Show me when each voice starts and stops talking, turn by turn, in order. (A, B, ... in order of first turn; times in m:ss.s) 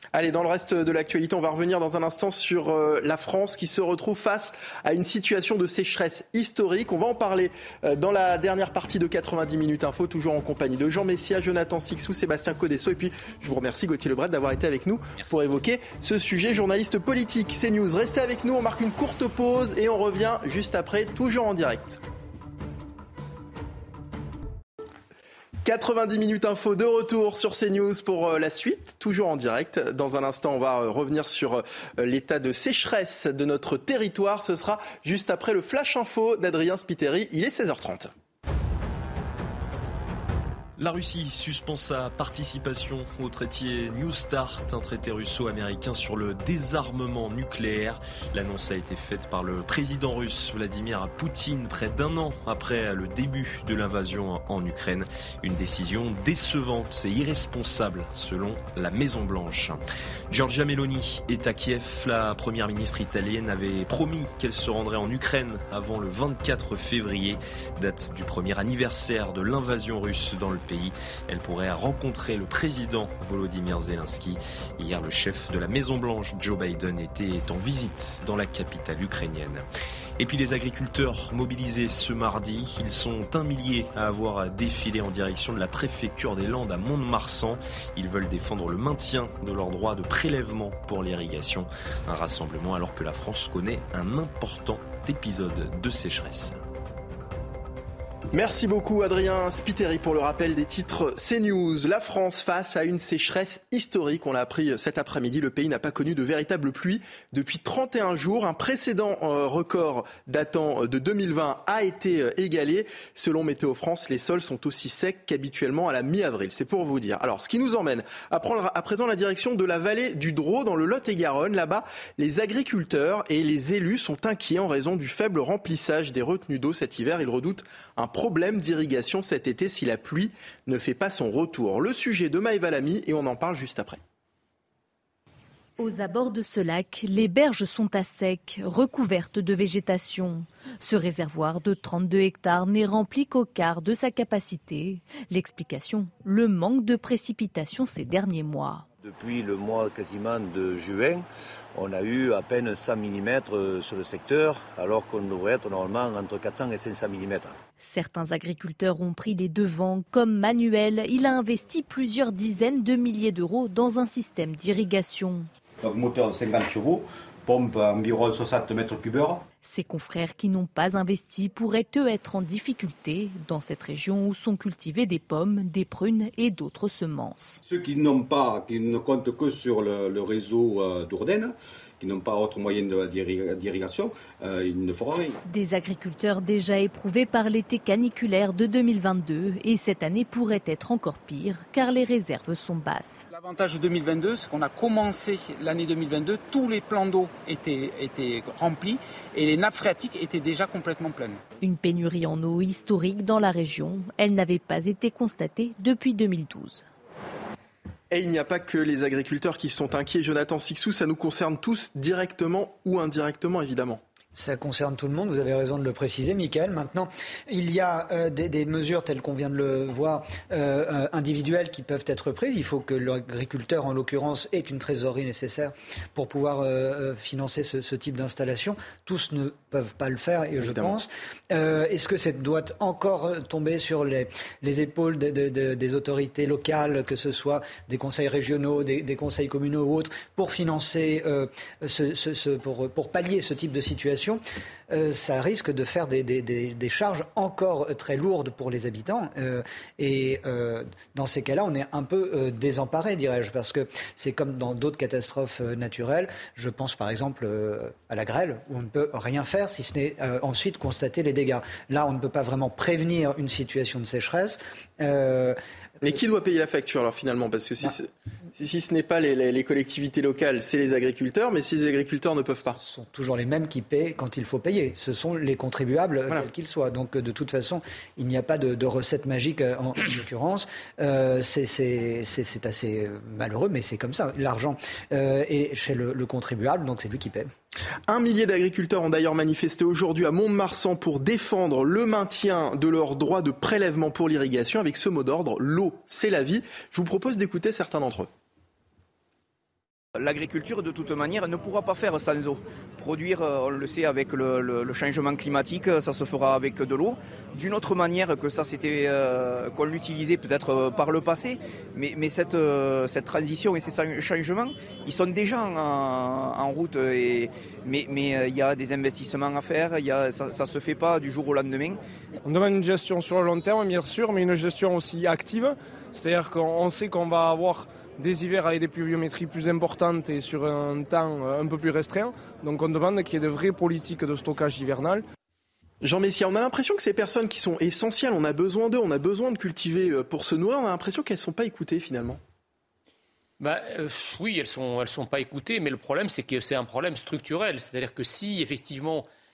0:00.1-0:22.0 A
0:25.6-0:38.1 A
0:40.8-0:59.8 B
1:00.3-1:19.6 B
1:20.2-1:36.6 B
1:38.3-2:14.0 A
2:15.8-2:28.8 C
2:29.0-2:37.6 D
2:37.8-2:45.5 C
2:45.8-2:49.4 E
2:49.6-2:57.6 C
2:57.6-3:05.4 E
3:05.4-3:13.2 C
3:13.3-3:21.4 F
3:21.6-3:26.8 C
3:28.1-3:34.0 A
3:34.3-4:25.6 G
3:50.6-3:50.9 A
4:26.0-4:32.8 A
4:32.8-4:47.5 G
4:48.1-4:58.3 A
5:00.1-5:22.0 H
5:22.4-5:35.2 I
5:36.0-5:42.4 A
5:43.6-5:49.2 J